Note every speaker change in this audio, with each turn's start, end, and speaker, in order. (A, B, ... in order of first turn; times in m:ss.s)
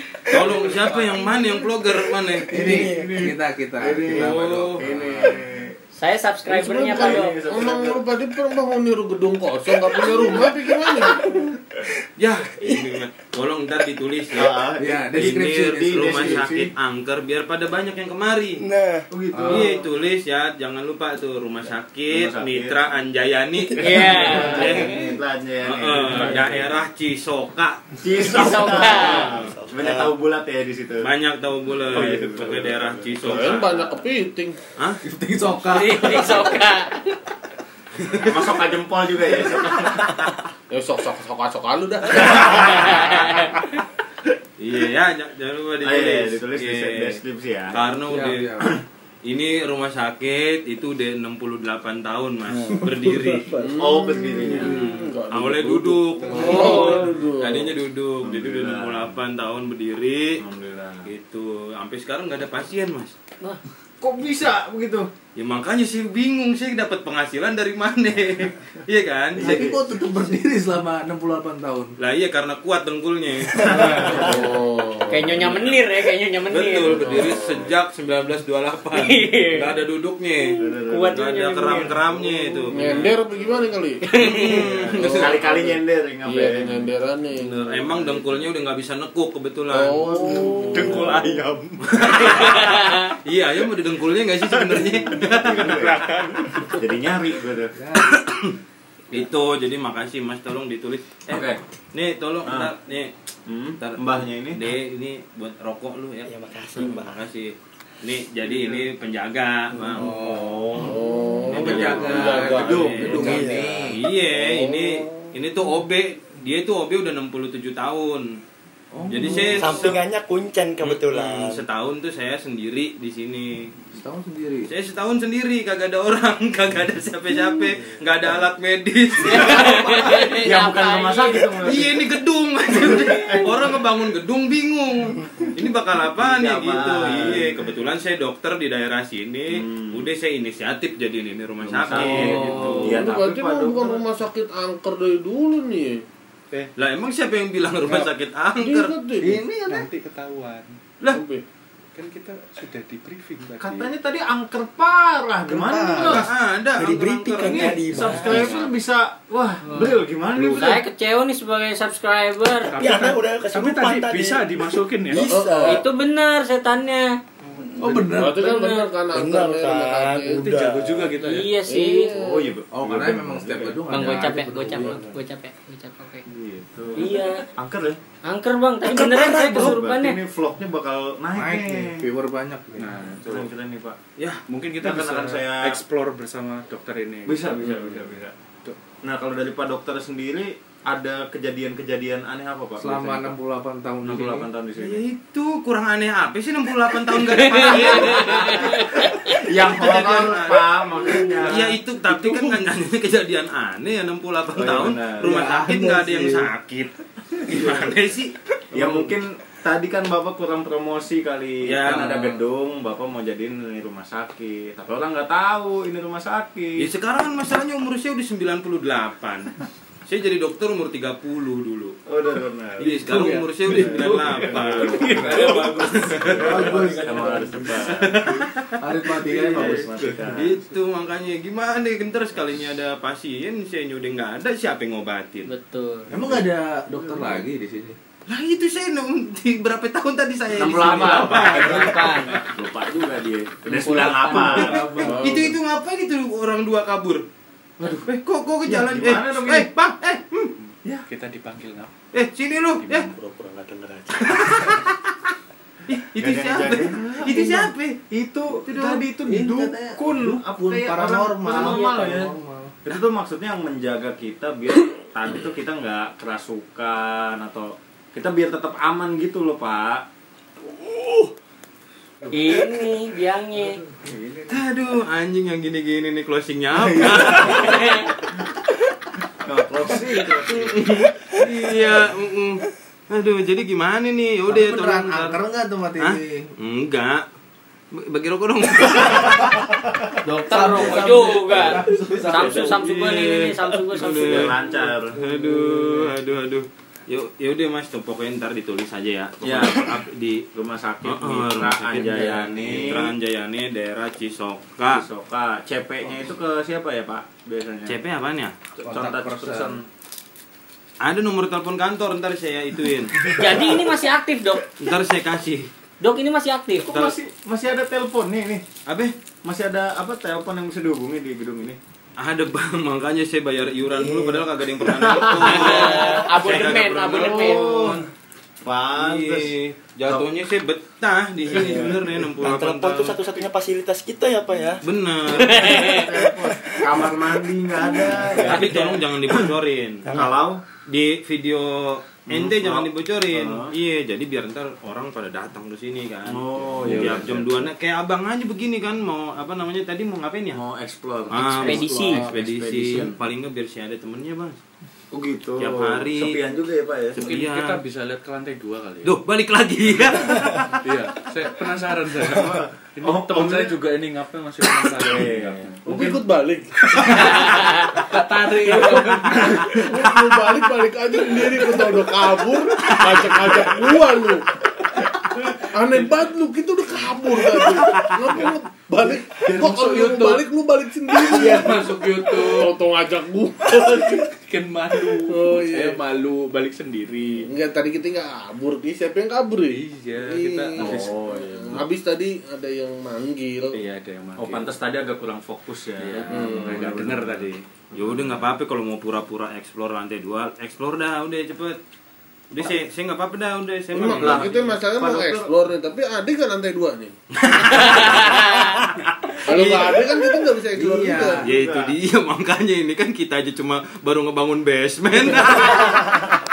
0:00.3-0:02.6 A
0:00.7-0:01.0 B
0:02.5-0:03.3 C
0:02.5-0:04.8 B
0:02.6-0:05.8 D
0:04.1-0:04.8 A
0:05.9-0:07.3 E
0:06.5-0:11.5 F
0:06.9-0:08.0 D
0:12.2-0:14.6 A
0:14.3-0:16.7 D
0:14.8-0:16.5 B
0:15.1-0:18.6 A
0:18.6-0:19.1 C
0:19.1-0:19.8 D
0:19.3-0:19.7 B
0:19.4-0:27.9 A
0:22.1-0:22.8 D
0:23.7-0:25.1 E
0:24.1-0:26.8 D
0:28.0-0:31.1 D
0:28.2-0:29.4 E
0:29.3-0:30.2 C
0:31.0-0:33.8 A
0:31.8-0:33.8 D
0:31.9-0:32.9 G
0:33.2-0:34.6 F
0:35.0-0:36.6 B
0:35.6-0:37.2 E
0:38.1-0:40.3 D
0:40.7-0:43.2 F
0:42.4-0:43.1 D
0:42.6-0:43.7 E
0:44.6-0:47.2 A
0:45.8-0:47.8 D
0:47.7-0:48.6 A
0:48.1-0:48.7 B
0:49.3-0:53.6 A
0:52.5-0:54.4 C
0:53.6-0:57.8 F
0:53.8-0:54.9 D
0:54.5-1:00.4 A
0:56.3-0:57.1 E
0:58.2-0:59.2 D
1:00.4-1:01.1 D
1:01.0-1:03.2 A
1:04.0-1:05.1 D
1:05.4-1:09.8 A
1:09.4-1:12.0 B
1:09.4-1:09.7 F
1:12.0-1:14.4 A
1:13.5-1:14.4 D
1:13.7-1:14.0 E
1:14.1-1:15.5 F
1:15.1-1:17.3 E
1:16.5-1:20.6 A
1:16.9-1:17.6 F
1:18.9-1:19.8 E
1:20.6-1:22.6 E
1:20.6-1:21.2 D
1:21.1-1:23.2 A
1:22.7-1:24.1 F
1:24.0-1:24.7 E
1:24.2-1:25.4 A
1:24.6-1:26.9 D
1:25.0-1:28.4 F
1:27.4-1:31.2 A
1:29.7-1:31.4 F
1:30.1-1:32.6 D
1:32.0-1:36.1 A
1:32.4-1:33.1 E
1:34.4-1:37.8 D
1:37.8-1:38.2 B
1:38.0-1:38.6 A
1:39.1-1:43.1 A
1:41.3-1:41.6 D
1:42.4-1:42.7 D
1:43.5-1:44.8 D
1:43.8-1:50.1 A
1:46.2-1:47.2 C
1:48.5-1:48.8 B
1:49.7-1:53.5 D
1:49.8-1:50.8 B
1:50.8-1:52.7 F
1:51.5-1:54.0 B
1:51.5-1:58.4 A
1:53.0-1:53.8 C
1:54.3-1:55.3 F
1:58.9-2:00.0 B
1:59.1-2:00.0 A
1:59.6-2:01.6 C
2:00.8-2:03.8 A
2:03.9-2:04.7 B
2:04.7-2:10.4 A
2:09.2-2:11.7 E
2:10.3-2:12.0 D
2:11.6-2:23.0 A
2:12.8-2:13.7 D
2:12.9-2:13.1 E
2:16.1-2:17.7 D
2:19.5-2:20.1 D
2:21.6-2:24.1 D
2:21.9-2:22.9 B
2:22.0-2:22.8 G
2:22.9-2:26.0 F
2:26.8-2:29.0 A
2:28.6-2:29.4 F
2:29.2-2:30.8 G
2:29.3-2:29.9 B
2:31.1-2:31.4 F
2:32.0-2:33.9 G
2:33.6-2:36.3 D
2:35.5-2:36.3 B
2:36.0-2:38.0 A
2:36.8-2:38.7 C
2:37.9-2:40.8 D
2:39.6-2:42.7 E
2:42.7-2:45.8 C
2:42.7-2:45.3 G
2:45.1-2:45.8 F
2:45.6-2:47.2 E
2:47.4-2:51.1 C
2:47.8-2:48.5 B
2:48.1-2:50.5 F
2:48.4-2:48.8 E
2:50.3-2:51.5 G
2:51.2-2:52.2 E
2:51.6-2:52.6 F
2:52.1-2:53.8 D
2:52.7-2:55.2 B
2:53.9-2:56.2 E
2:56.3-2:58.0 D
2:57.0-2:57.4 E
2:58.2-3:00.2 E
2:59.0-2:59.8 A
2:59.1-3:02.1 D
3:01.3-3:03.1 B
3:02.8-3:03.5 G
3:03.2-3:04.0 D
3:04.2-3:04.4 A
3:04.5-3:07.6 G
3:04.8-3:05.8 D
3:07.3-3:08.4 D
3:07.6-3:08.0 F
3:09.0-3:13.4 D
3:12.8-3:14.5 B
3:14.0-3:15.0 D
3:14.8-3:18.9 A
3:17.2-3:19.2 E
3:17.6-3:21.8 D
3:19.5-3:28.3 A
3:22.1-3:22.5 B
3:24.5-3:25.3 D
3:25.2-3:26.5 B
3:27.5-3:27.8 D
3:28.7-3:36.9 D
3:28.7-3:29.2 B
3:31.6-3:32.2 A
3:36.8-3:39.5 A
3:40.1-3:42.0 A
3:42.1-3:48.4 D
3:42.8-3:46.9 A
3:42.8-3:47.4 G
3:43.0-3:44.3 B
3:46.4-3:47.9 B
3:47.7-3:55.5 A
3:48.8-3:49.9 B
3:49.3-3:50.6 D
3:50.0-3:50.5 G
3:55.5-3:56.1 E
3:56.1-3:58.0 B
3:56.1-3:57.4 D
3:58.3-4:02.2 A
4:00.5-4:05.4 D
4:00.6-4:02.5 E
4:03.6-4:05.0 E
4:03.9-4:07.3 A
4:04.4-4:05.3 B
4:05.1-4:05.5 F
4:07.8-4:09.7 D
4:07.8-4:10.5 A
4:10.6-4:11.9 G
4:12.1-4:13.1 A
4:12.8-4:13.2 G
4:13.2-4:14.1 B
4:14.1-4:15.0 A
4:15.9-4:18.0 A
4:16.2-4:22.3 D
4:18.6-4:19.1 A
4:19.2-4:22.8 B
4:21.5-4:22.1 E
4:22.8-4:30.1 D
4:32.3-4:33.8 E
4:33.8-4:34.6 D
4:34.5-4:38.0 A
4:36.7-4:37.8 D
4:37.6-4:38.1 E
4:39.4-4:40.8 D
4:40.5-4:45.4 A
4:44.5-4:46.5 B
4:46.0-4:47.2 A
4:47.9-4:49.6 A
4:48.9-4:50.1 D
4:50.2-4:52.8 B
4:50.5-4:54.5 E
4:50.7-4:54.6 A
4:54.1-4:55.2 D
4:55.1-5:00.5 A
4:55.2-4:56.1 B
4:59.4-5:00.0 D
5:00.5-5:03.1 D
5:01.0-5:05.0 A
5:02.0-5:02.9 B
5:04.9-5:08.0 D
5:07.8-5:08.6 A
5:08.8-5:09.8 D
5:08.8-5:09.8 B
5:11.0-5:13.4 A
5:13.3-5:14.7 E
5:14.8-5:15.7 A
5:16.0-5:16.9 E
5:16.8-5:18.7 D
5:16.9-5:17.2 A
5:18.9-5:19.1 A
5:19.4-5:21.8 D
5:22.2-5:28.1 A
5:24.0-5:24.4 C
5:24.8-5:28.1 D
5:25.4-5:27.7 E
5:28.6-5:29.5 D
5:29.0-5:33.2 A
5:30.1-5:30.3 D
5:31.5-5:32.2 D
5:31.5-5:34.8 C
5:34.8-5:36.0 A
5:35.4-5:36.2 E
5:35.5-5:39.5 D
5:37.8-5:38.3 C
5:38.3-5:40.2 A
5:40.0-5:40.4 C
5:40.1-5:40.6 D
5:40.9-5:50.6 A
5:42.3-5:43.7 D
5:46.3-5:47.7 D
5:50.5-5:53.2 D
5:51.3-5:54.6 A
5:51.6-5:52.3 E
5:55.1-5:57.3 D
5:55.6-5:56.4 A
5:57.2-5:57.8 A
5:57.2-5:59.2 G
5:59.0-6:00.7 A
6:00.8-6:05.8 G
6:02.2-6:03.8 D
6:04.8-6:06.2 D
6:05.8-6:07.5 F
6:07.0-6:07.6 G
6:07.2-6:09.8 B
6:07.6-6:07.9 E
6:08.1-6:09.7 G
6:09.5-6:14.5 F
6:11.6-6:11.9 G
6:13.2-6:13.6 G
6:15.2-6:24.3 F
6:17.6-6:18.4 A
6:19.0-6:20.4 G
6:21.1-6:22.8 G
6:23.6-6:27.5 G
6:25.0-6:26.0 F
6:27.4-6:33.8 F
6:29.7-6:31.8 G
6:30.8-6:31.8 D
6:33.7-6:34.8 G
6:34.4-6:38.5 D
6:36.0-6:37.6 G
6:36.3-6:37.1 F
6:38.0-6:41.8 A
6:42.5-6:45.5 A
6:43.9-6:47.2 F
6:47.4-6:50.1 A
6:47.8-6:48.7 E
6:49.4-6:51.5 F
6:50.8-6:51.5 B
6:51.4-6:56.2 A
6:51.4-6:52.0 D